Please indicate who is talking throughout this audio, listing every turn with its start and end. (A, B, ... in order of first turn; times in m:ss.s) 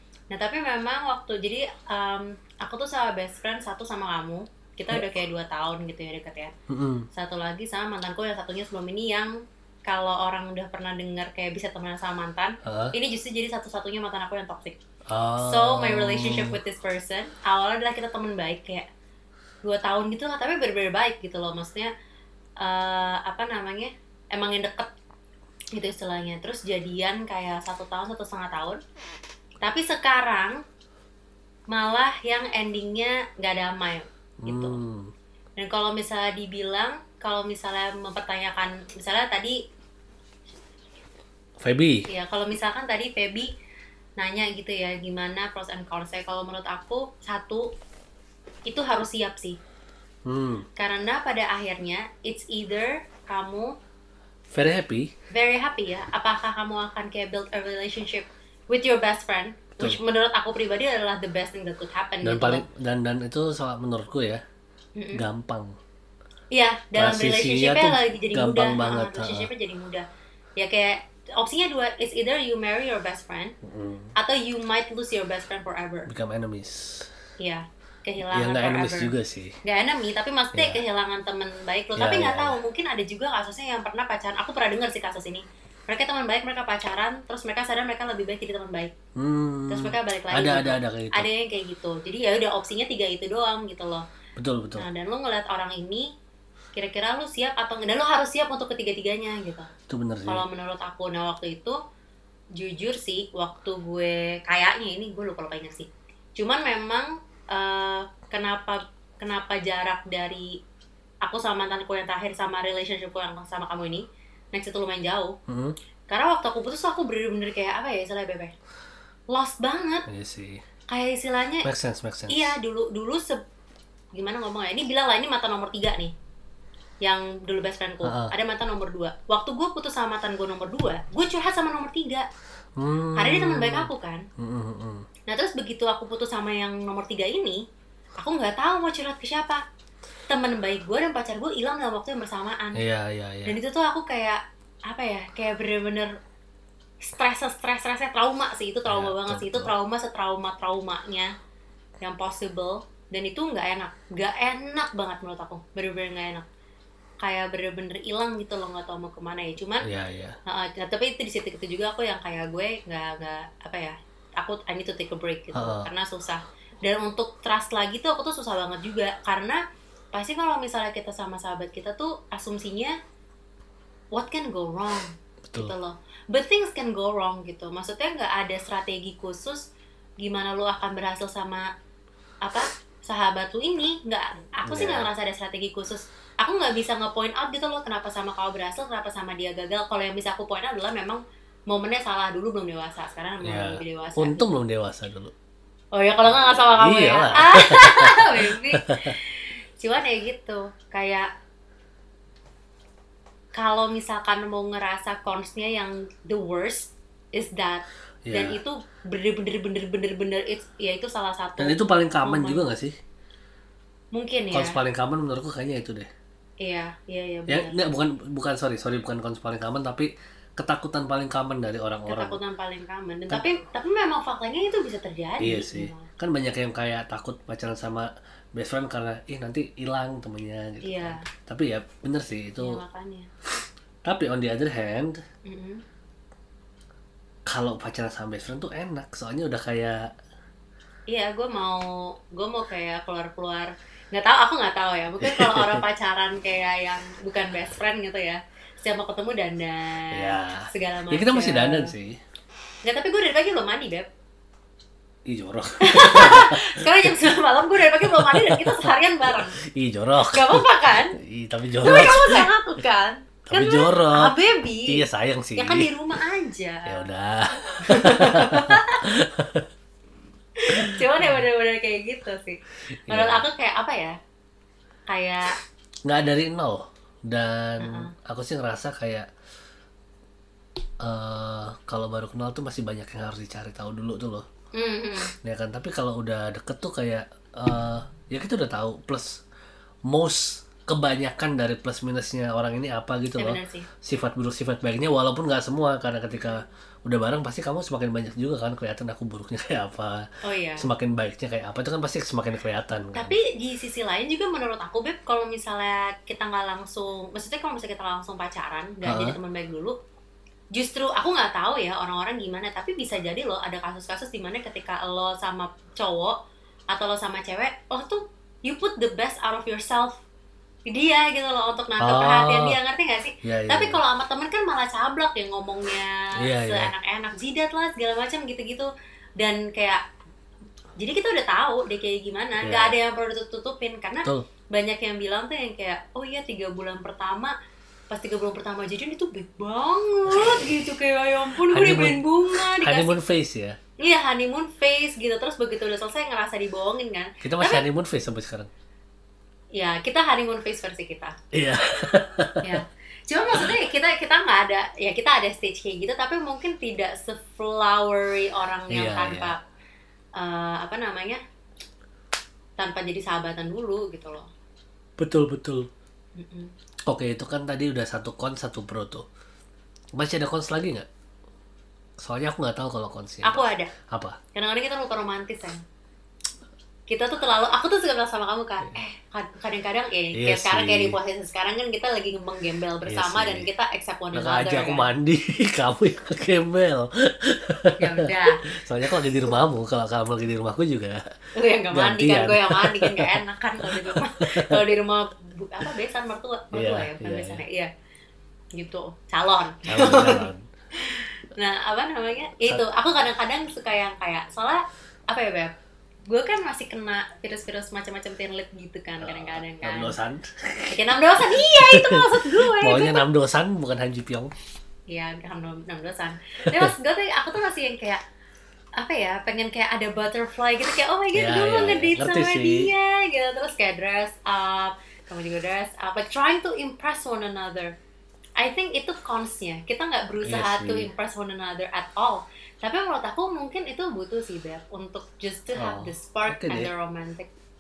0:00.3-0:06.5 A
0:06.7-0:07.1 B
0:07.1-0:09.3 A
0:09.9-0:14.8 A
0:12.6-0:12.9 B
0:15.1-0:16.6 B
0:15.4-0:18.9 A
0:19.6-0:21.9 A
0:22.6-0:24.9 A
0:25.7-0:28.8 A
0:29.6-0:30.6 A
0:31.7-0:34.8 A
0:34.4-0:35.1 B
0:35.6-0:39.6 A
0:41.6-0:42.1 B
0:42.1-0:43.5 A
0:44.2-0:47.7 A
0:48.7-0:49.6 A
0:50.3-0:50.7 B
0:50.8-0:53.7 A
0:54.5-0:55.1 B
0:55.3-1:02.6 A
1:02.2-1:04.4 B
1:05.0-1:05.2 A
1:05.1-1:05.7 B
1:06.5-1:10.0 A
1:07.0-1:09.5 B
1:10.6-1:13.6 A
1:13.6-1:14.1 B
1:14.2-1:16.1 A
1:16.1-1:17.1 B
1:17.4-1:19.1 A
1:18.3-1:19.6 B
1:19.6-1:28.9 A
1:20.5-1:20.8 B
1:22.0-1:22.6 B
1:29.2-1:31.3 B
1:29.7-1:34.0 A
1:34.4-1:34.9 B
1:34.8-1:36.1 A
1:36.8-1:39.7 A
1:39.9-1:40.4 B
1:40.3-1:41.8 A
1:42.6-1:50.6 A
1:51.2-1:55.4 A
1:55.5-1:55.8 B
1:56.1-1:58.5 A
1:59.3-2:00.1 A
2:00.1-2:00.6 B
2:00.9-2:01.7 A
2:01.6-2:02.6 B
2:02.3-2:03.4 A
2:04.2-2:06.1 A
2:07.0-2:12.3 A
2:08.0-2:08.3 B
2:12.8-2:15.1 B
2:13.2-2:14.2 A
2:15.3-2:17.6 A
2:18.2-2:19.6 A
2:20.3-2:22.8 A
2:22.8-2:23.6 B
2:23.5-2:26.1 A
2:27.0-2:31.3 A
2:28.9-2:29.7 B
2:32.0-2:36.5 A
2:37.2-2:39.9 A
2:39.8-2:40.4 B
2:40.5-2:49.6 A
2:45.5-2:45.9 B
2:50.1-2:53.0 A
2:54.1-2:59.6 A
3:00.2-3:01.7 A
3:02.4-3:14.4 A
3:04.7-3:05.1 B
3:13.4-3:15.3 B
3:15.9-3:21.3 A
3:16.5-3:19.2 B
3:23.5-3:32.6 A
3:28.2-3:28.6 B
3:31.6-3:33.0 B
3:34.1-3:34.8 A
3:34.5-3:36.1 B
3:36.6-3:37.8 A
3:37.5-3:42.4 B
3:42.1-3:46.1 A
3:45.4-3:52.8 B
3:50.8-3:51.3 A
3:52.6-3:53.3 A
3:54.0-3:55.2 B
3:55.5-3:55.8 A
3:57.5-4:00.1 B
4:01.1-4:11.9 A
4:05.2-4:05.8 B
4:10.1-4:12.2 B
4:12.8-4:14.1 A
4:15.3-4:17.2 B
4:15.8-4:19.6 A
4:18.0-4:22.5 B
4:20.3-4:21.2 A
4:21.8-4:25.0 A
4:23.5-4:25.9 B
4:25.6-4:27.1 A
4:26.9-4:29.7 B
4:27.8-4:29.1 A
4:30.6-4:34.2 A
4:30.7-4:31.4 B
4:33.1-4:33.4 B
4:35.1-4:35.6 A
4:36.0-4:39.3 B
4:37.8-4:38.1 A
4:41.0-4:44.5 B
4:44.7-4:45.4 A
4:45.4-4:49.4 B
4:50.1-5:03.4 B
4:53.4-4:53.9 A
4:56.3-4:56.7 A
5:00.4-5:00.9 A
5:03.1-5:10.0 A
5:09.0-5:09.4 B
5:10.7-5:16.4 A
5:16.9-5:20.2 A
5:20.9-5:30.0 A
5:22.0-5:22.8 B
5:23.4-5:24.0 B
5:26.4-5:26.9 B
5:31.0-5:37.6 A
5:32.6-5:33.0 B
5:38.1-5:43.2 A
5:41.7-5:43.8 B
5:44.0-5:47.8 A
5:47.4-5:48.7 B
5:49.7-5:51.4 A
5:51.5-5:52.8 B
5:52.6-5:59.6 A
5:53.5-5:53.8 B
5:58.9-5:59.5 B
6:00.4-6:01.4 A
6:02.8-6:04.5 A
6:05.2-6:05.9 B
6:06.4-6:06.7 A
6:07.1-6:09.3 B
6:10.2-6:11.1 B
6:12.2-6:14.4 B
6:13.4-6:13.9 A
6:14.5-6:15.8 A
6:17.1-6:25.1 A
6:20.3-6:21.2 B
6:23.1-6:23.7 B
6:24.3-6:31.3 B
6:28.0-6:28.6 A
6:31.6-6:37.9 A
6:31.9-6:34.8 B
6:36.7-6:37.6 B
6:38.8-6:45.7 A
6:39.9-6:40.6 B
6:46.3-6:50.2 A
6:49.2-6:54.5 B
6:50.9-6:53.2 A
6:55.1-6:58.2 A
6:56.7-6:56.9 B
6:59.0-7:08.0 A
7:01.4-7:02.9 B
7:08.6-7:17.5 A
7:10.4-7:11.1 B
7:15.7-7:16.9 B